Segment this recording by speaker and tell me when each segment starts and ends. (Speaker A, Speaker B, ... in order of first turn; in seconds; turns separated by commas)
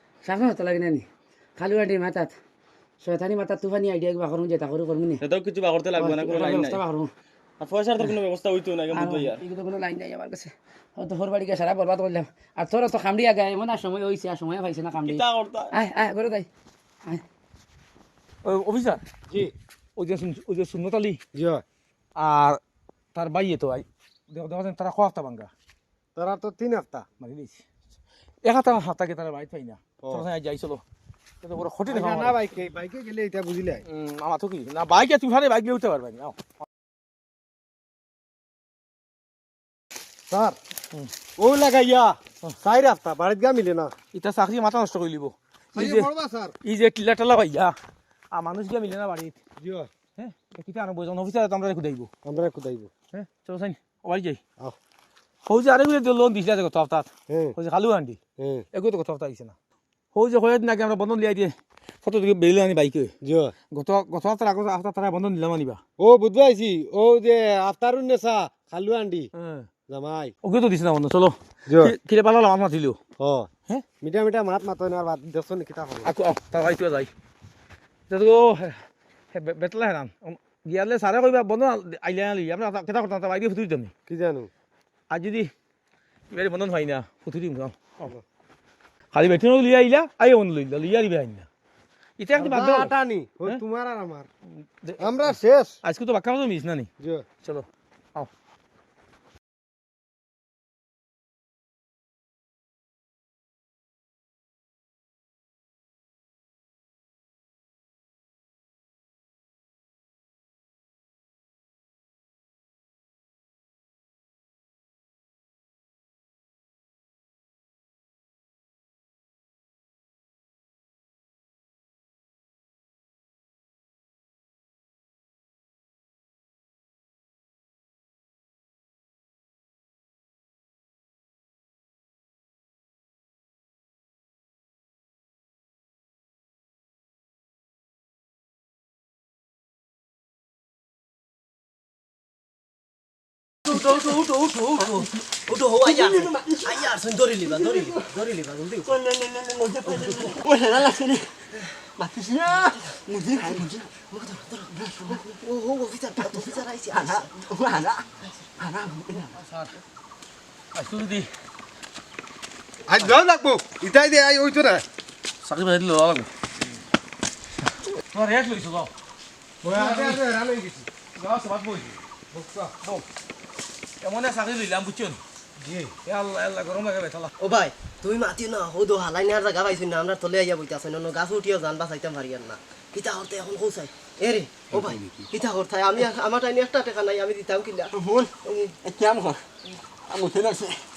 Speaker A: 0.2-1.1, Speaker A: 1.6-2.3, Speaker A: 3.0-5.2, Speaker B: 5.2-6.8, Speaker A: 5.9-7.1, Speaker B: 7.6-9.4, Speaker A: 8.9-16.5, Speaker B: 15.0-15.7, Speaker C: 18.4-19.0, Speaker C: 19.9-21.2, Speaker D: 21.3-21.6, Speaker C: 22.1-22.6, Speaker C: 23.1-25.5, Speaker D: 26.1-27.1, Speaker C: 27.2-27.6, Speaker C: 28.4-30.8, Speaker C: 31.4-32.4, Speaker D: 31.9-33.8, Speaker C: 33.9-36.4, Speaker D: 40.3-40.5, Speaker D: 41.4-43.9, Speaker C: 44.1-46.1, Speaker D: 45.8-46.5, Speaker C: 46.6-47.8, Speaker C: 48.3-49.4, Speaker D: 49.6-49.9, Speaker C: 50.2-52.1, Speaker D: 52.2-52.9, Speaker C: 53.1-54.4, Speaker C: 55.5-58.2, Speaker D: 57.3-57.5, Speaker D: 58.4-58.6, Speaker C: 58.7-59.5, Speaker C: 60.1-63.1, Speaker D: 63.2-63.5, Speaker C: 63.7-65.8, Speaker D: 66.0-69.3, Speaker C: 69.3-69.7, Speaker D: 69.9-70.3, Speaker C: 70.4-73.0, Speaker D: 71.7-71.9, Speaker D: 73.2-73.5, Speaker D: 74.0-76.1, Speaker C: 76.0-77.1, Speaker C: 78.1-78.8, Speaker C: 79.3-83.9, Speaker D: 84.1-84.5, Speaker C: 85.1-85.5, Speaker C: 86.3-88.1, Speaker C: 89.1-91.5, Speaker C: 92.2-92.9, Speaker D: 92.3-94.3, Speaker C: 94.8-96.9, Speaker D: 95.0-95.8, Speaker D: 97.0-97.2, Speaker C: 97.4-98.3, Speaker E: 143.7-149.1, Speaker F: 149.1-151.2, Speaker E: 149.8-150.6, Speaker E: 151.5-159.2, Speaker F: 152.1-152.5, Speaker C: 159.3-159.8, Speaker C: 160.7-161.3, Speaker D: 162.9-164.8, Speaker C: 165.4-166.3, Speaker C: 168.1-168.9, Speaker D: 169.6-170.9, Speaker C: 169.6-170.2, Speaker C: 171.2-172.0, Speaker D: 172.3-172.7, Speaker C: 174.0-175.2, Speaker D: 175.6-175.9, Speaker C: 176.0-177.3, Speaker E: 177.4-188.8, Speaker C: 184.7-185.3, Speaker F: 188.0-188.3, Speaker F: 188.9-189.4, Speaker F: 190.1-190.8